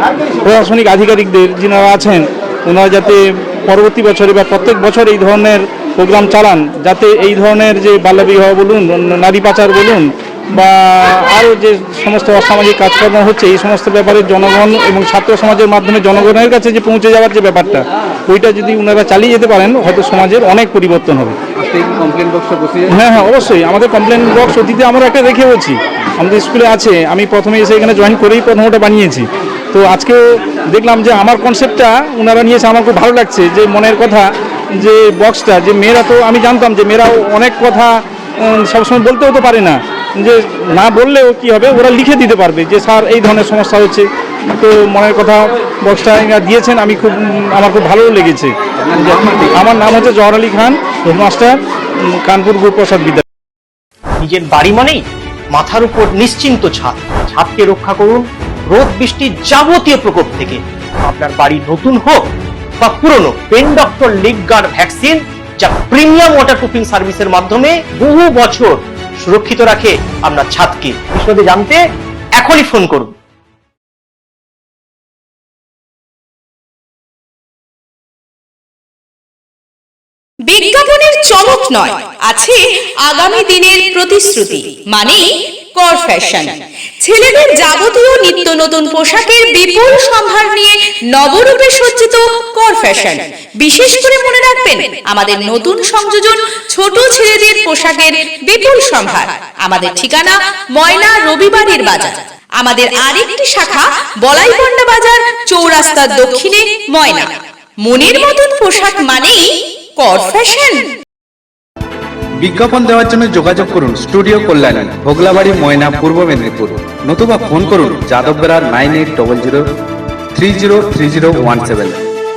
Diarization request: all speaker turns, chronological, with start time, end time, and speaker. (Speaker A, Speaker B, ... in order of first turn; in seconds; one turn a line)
Speaker A: 0.4-21.3
Speaker B: 21.6-22.9
Speaker A: 22.9-53.2
Speaker B: 48.8-49.6
Speaker C: 54.2-62.3
Speaker C: 62.8-71.8
Speaker C: 72.4-73.1
Speaker D: 80.5-110.8
Speaker E: 112.4-119.7
Speaker E: 120.3-122.0